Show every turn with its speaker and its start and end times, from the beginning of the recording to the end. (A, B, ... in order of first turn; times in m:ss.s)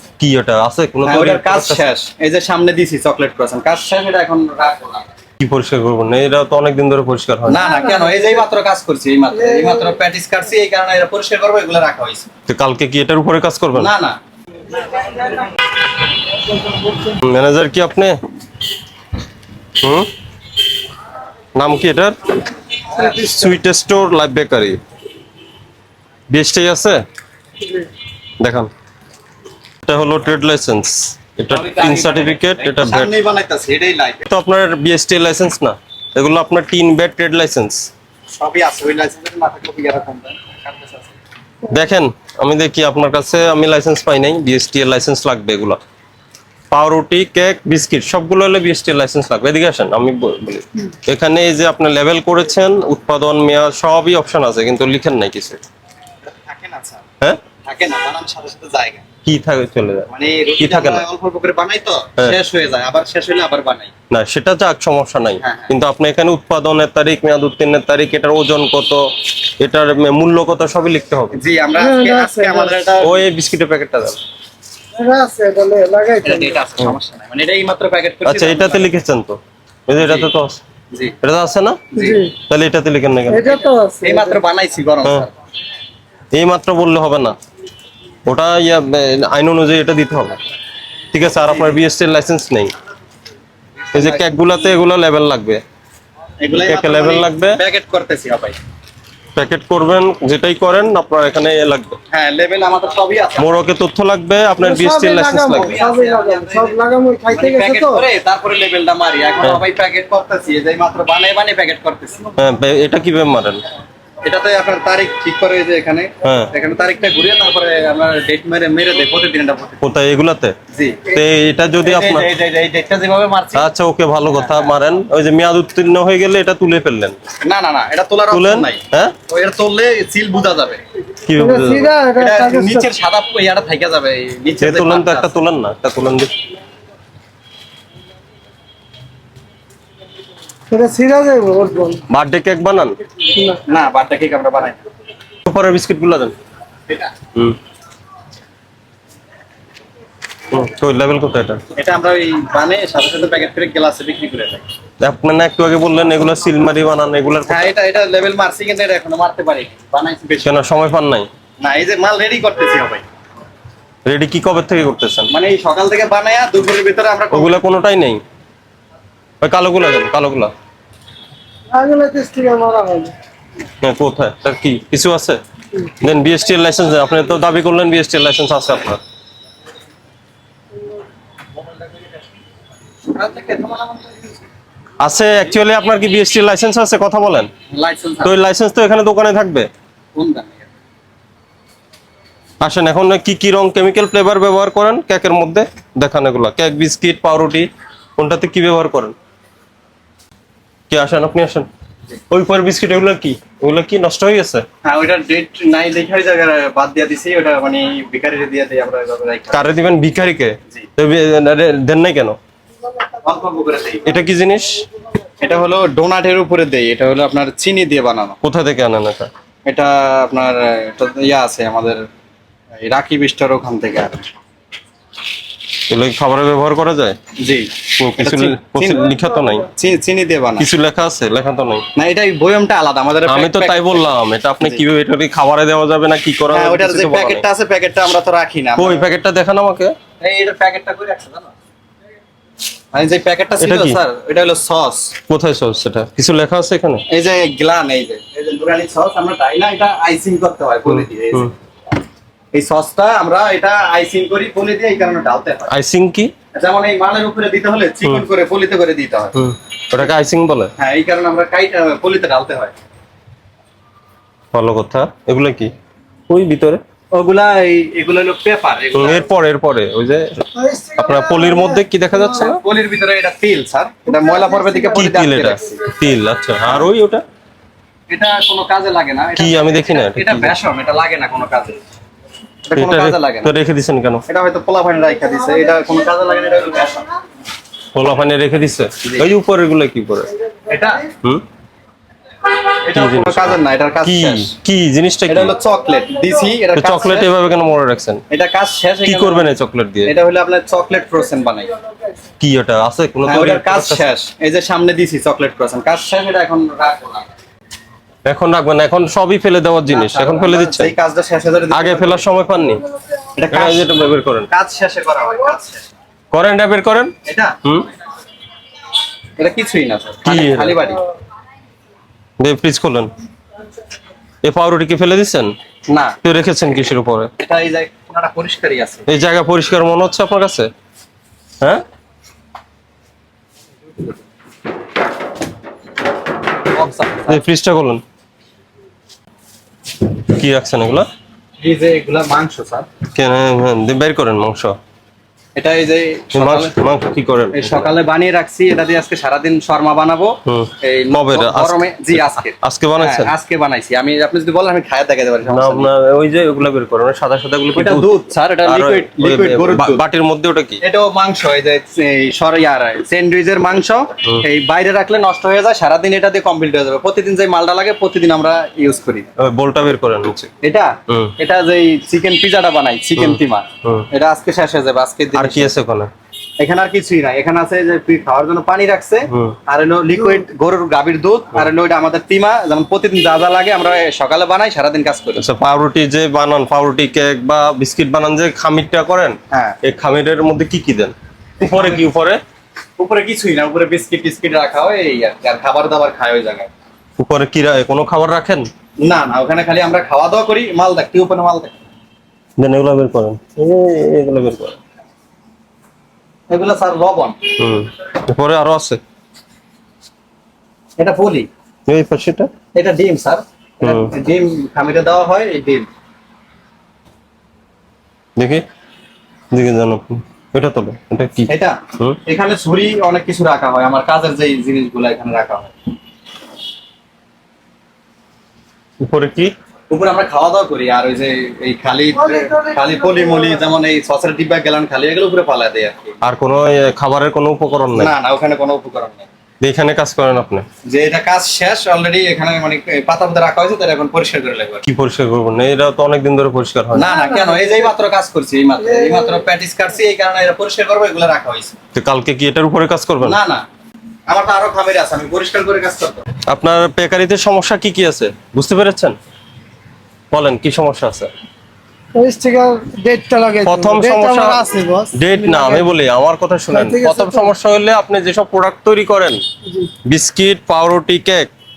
0:00.2-0:01.9 A
0:01.0-0:05.1 B
0:05.4-0:07.7 A
0:07.5-0:12.3 B
0:07.6-0:08.3 C
0:09.5-0:09.8 C
0:12.5-0:13.9 A
0:13.7-0:14.2 B
0:17.2-0:18.2 A
0:19.8-0:20.1 A
0:21.6-0:22.2 A
0:22.9-0:23.4 B
0:23.0-0:24.8 A
0:26.3-0:27.0 A
0:28.4-0:28.7 A
0:29.8-0:33.1 A
0:31.5-0:34.2 B
0:34.3-0:37.9 A
0:38.4-0:41.2 B
0:41.7-0:45.8 A
0:46.7-0:55.6 A
0:56.2-0:57.0 B
0:57.6-0:59.0 B
0:59.3-1:00.1 A
1:00.1-1:03.9 B
1:00.6-1:01.0 A
1:04.1-1:09.0 A
1:05.4-1:05.7 B
1:09.6-1:11.4 A
1:11.3-1:13.2 B
1:11.8-1:12.8 C
1:13.0-1:14.2 A
1:15.0-1:16.6 C
1:16.2-1:18.9 B
1:18.2-1:20.6 A
1:20.0-1:20.3 B
1:21.2-1:21.8 A
1:21.9-1:22.2 B
1:22.0-1:22.3 C
1:22.5-1:23.5 A
1:23.3-1:24.4 C
1:23.4-1:25.3 B
1:26.3-1:27.4 A
1:28.3-1:30.4 A
1:31.1-1:32.7 A
1:31.4-1:31.8 B
1:33.8-1:34.3 B
1:33.9-1:35.6 A
1:36.4-1:38.6 B
1:36.5-1:37.6 A
1:39.4-1:42.0 A
1:42.1-1:43.5 B
1:43.4-1:45.8 A
1:44.6-1:48.0 C
1:45.5-1:46.8 B
1:47.3-1:52.3 B
1:52.4-1:53.6 A
1:54.2-1:59.8 B
1:56.2-1:56.5 A
1:59.8-2:00.6 A
2:00.7-2:01.2 B
2:01.1-2:02.3 A
2:01.8-2:03.7 B
2:03.6-2:07.2 A
2:04.3-2:04.8 B
2:07.4-2:10.8 B
2:08.3-2:09.2 A
2:11.3-2:11.9 A
2:11.4-2:12.9 C
2:12.2-2:15.3 B
2:14.6-2:16.3 A
2:20.7-2:22.0 C
2:22.1-2:23.0 A
2:23.3-2:23.6 C
2:23.7-2:24.8 B
2:25.5-2:26.3 A
2:30.5-2:31.6 A
2:31.8-2:34.7 B
2:35.0-2:37.7 A
2:37.5-2:40.6 B
2:40.4-2:41.3 A
2:41.6-2:43.0 B
2:44.1-2:45.3 A
2:45.3-2:47.6 B
2:47.3-2:48.2 A
2:49.4-2:50.5 A
2:51.7-2:53.1 C
2:53.8-2:55.4 A
2:56.0-2:59.0 A
3:03.1-3:04.4 B
3:05.0-3:07.5 A
3:07.7-3:08.4 B
3:08.2-3:09.7 A
3:10.2-3:10.7 B
3:12.6-3:19.1 A
3:20.9-3:21.7 A
3:22.3-3:24.6 A
3:24.8-3:29.6 B
3:29.5-3:32.4 A
3:33.2-3:34.2 B
3:34.1-3:34.8 A
3:35.4-3:38.4 B
3:38.4-3:39.3 A
3:39.7-3:42.1 B
3:42.8-3:44.2 B
3:45.9-3:47.2 A
3:47.4-3:50.7 B
3:48.0-3:49.7 A
3:50.6-3:51.9 A
3:52.0-3:54.8 B
3:53.3-3:57.4 A
3:56.5-3:59.1 B
3:58.8-3:59.9 A
4:00.2-4:01.5 B
4:02.9-4:05.2 B
4:03.6-4:04.0 A
4:05.3-4:07.0 A
4:07.1-4:11.5 B
4:10.9-4:11.5 A
4:12.5-4:15.7 B
4:15.7-4:16.3 A
4:16.6-4:19.4 B
4:19.4-4:20.7 A
4:20.8-4:22.7 B
4:24.5-4:25.7 A
4:26.3-4:26.8 A
4:27.1-4:29.3 B
4:29.0-4:30.3 A
4:30.6-4:32.4 C
4:31.0-4:32.6 A
4:32.4-4:35.8 B
4:34.1-4:35.1 C
4:35.0-4:37.2 A
4:38.1-4:41.8 B
4:39.4-4:40.5 A
4:42.7-4:43.5 B
4:42.8-4:44.2 A
4:44.3-4:47.1 B
4:47.9-4:50.3 A
4:50.7-4:51.1 B
4:52.8-4:54.5 B
4:52.9-4:55.6 A
4:55.3-4:57.3 B
4:56.8-4:58.2 A
4:58.3-4:59.5 B
4:59.0-5:00.1 A
5:00.1-5:01.7 B
5:02.4-5:04.1 A
5:03.2-5:07.3 B
5:08.3-5:10.9 A
5:09.9-5:12.3 B
5:11.7-5:12.8 A
5:13.4-5:13.9 B
5:13.5-5:14.5 A
5:14.5-5:15.8 B
5:16.3-5:17.9 A
5:17.2-5:17.6 B
5:19.4-5:21.0 B
5:20.2-5:20.8 A
5:22.4-5:23.1 A
5:24.4-5:25.5 A
5:25.9-5:26.2 B
5:26.2-5:27.3 A
5:27.4-5:29.0 B
5:29.1-5:30.7 A
5:36.7-5:37.4 B
5:37.3-5:38.0 A
5:40.2-5:41.1 A
5:41.6-5:42.9 B
5:43.1-5:44.8 A
5:45.6-5:46.8 B
5:46.4-5:47.9 A
5:47.5-5:55.9 B
5:50.5-5:53.3 A
5:55.5-5:58.1 A
5:57.8-6:00.0 B
5:58.6-6:00.8 A
6:00.8-6:09.3 B
6:09.4-6:10.5 A
6:10.6-6:15.7 B
6:13.2-6:14.1 A
6:15.3-6:16.1 A
6:16.6-6:25.4 B
6:19.3-6:19.6 A
6:25.4-6:32.4 A
6:29.5-6:29.8 B
6:31.6-6:32.0 B
6:33.0-6:36.7 B
6:37.2-6:38.7 A
6:39.0-6:41.8 B
6:42.6-6:44.8 A
6:46.5-6:47.4 B
6:47.6-6:49.0 A
6:51.0-6:51.5 B
6:51.9-6:52.5 A
6:52.7-6:55.9 B
6:53.8-6:54.1 A
6:58.4-6:58.6 A
6:59.5-7:02.2 A
7:01.5-7:05.7 B
7:09.0-7:09.5 A
7:09.9-7:16.2 B
7:12.2-7:13.6 C
7:16.2-7:18.1 A
7:17.9-7:19.3 B
7:19.6-7:20.6 A
7:20.9-7:24.8 B
7:24.9-7:27.1 A
7:26.9-7:31.8 B
7:27.0-7:27.9 C
7:28.8-7:29.4 C
7:31.9-7:33.4 A
7:33.2-7:33.6 B
7:34.3-7:36.2 B
7:36.5-7:39.2 A
7:40.3-7:41.3 A
7:42.2-7:45.9 C
7:43.6-7:49.4 A
7:46.7-7:47.5 C
7:49.7-7:49.9 C
7:50.1-7:51.5 A